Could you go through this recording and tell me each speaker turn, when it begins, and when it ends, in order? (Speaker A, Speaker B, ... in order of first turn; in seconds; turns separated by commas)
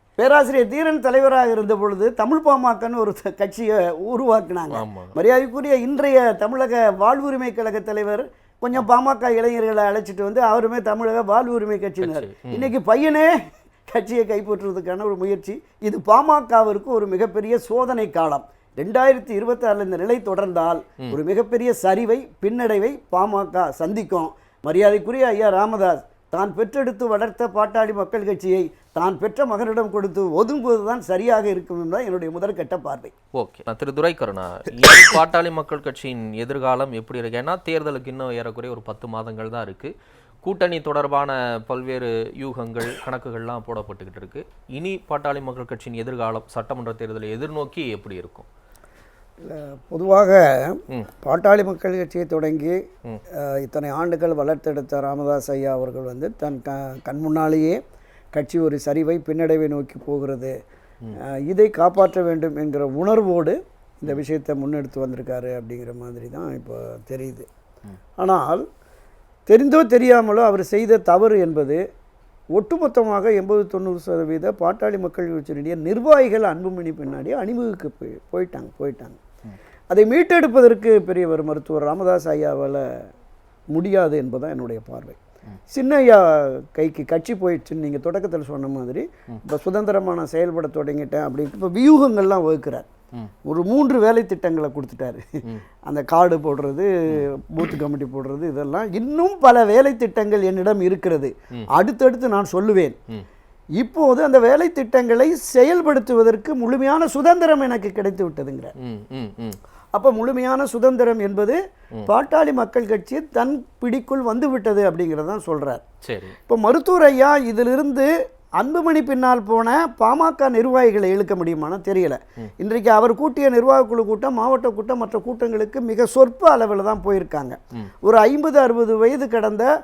Speaker A: 0.2-33.1, Speaker B: 4.7-5.2, Speaker B: 12.0-12.7, Speaker B: 33.3-39.9, Speaker B: 40.4-48.5, Speaker A: 49.4-52.8, Speaker A: 53.3-57.8, Speaker A: 58.3-60.5, Speaker A: 61.1-67.5, Speaker A: 68.2-68.6, Speaker A: 69.5-71.8, Speaker A: 72.5-79.2, Speaker A: 79.9-83.0, Speaker A: 83.7-85.2, Speaker A: 85.7-92.9, Speaker A: 93.5-95.2, Speaker A: 95.9-102.9, Speaker A: 103.8-108.7, Speaker B: 108.8-109.6, Speaker A: 109.9-115.8, Speaker B: 116.0-116.4, Speaker A: 116.5-129.7